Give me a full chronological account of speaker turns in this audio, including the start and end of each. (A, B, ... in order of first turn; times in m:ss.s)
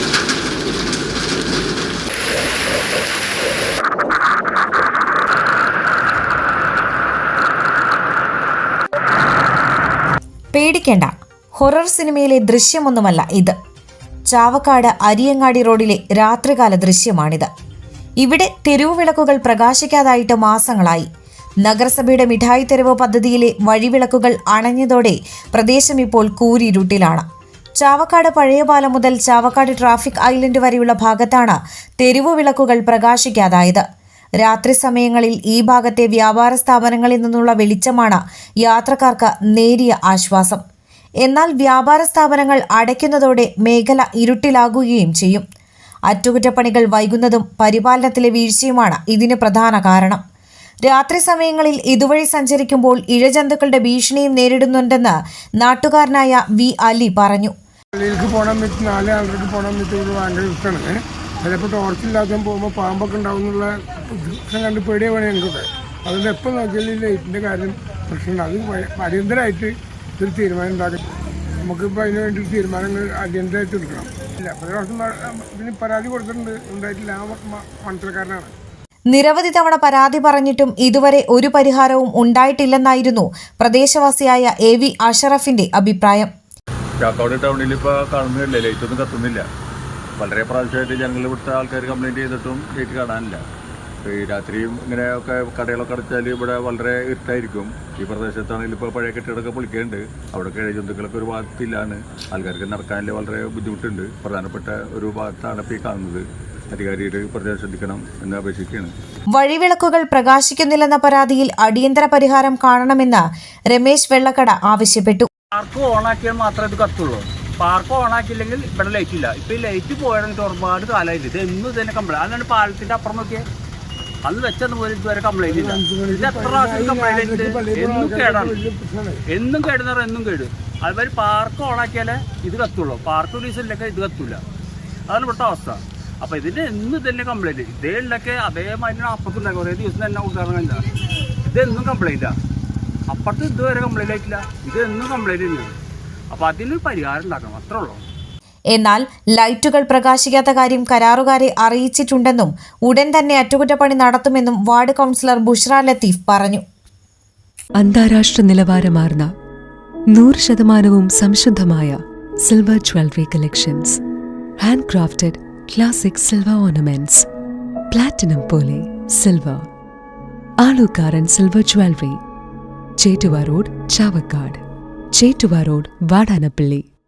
0:10.5-0:13.5 A
0:14.3-0:17.5 A
0:18.2-0:21.1 A
0:21.6-0:27.2 A
0:27.8-0:33.8 A
0:34.4-0:40.6 A
0:41.2-0:45.4 A
0:46.1-0:50.2 A
0:50.8-0:57.5 A
0:57.9-1:11.0 B
1:11.6-1:18.5 B
1:19.1-1:26.3 A
1:27.0-1:29.4 C
1:30.2-1:33.4 C
1:34.0-1:48.9 C
1:49.3-1:55.3 A
1:55.5-2:03.4 D
2:04.2-2:08.6 D
2:05.4-2:09.2 B
2:09.3-2:14.4 D
2:15.1-2:20.8 D
2:21.5-2:22.3 D
2:23.1-2:25.7 D
2:26.3-2:28.0 D
2:28.7-2:36.6 A
2:37.8-2:39.3 E
2:40.1-2:44.0 E
2:44.6-2:47.3 E
2:47.9-2:49.7 E
2:50.6-2:52.2 E
2:53.0-2:54.6 E
2:55.2-2:56.8 E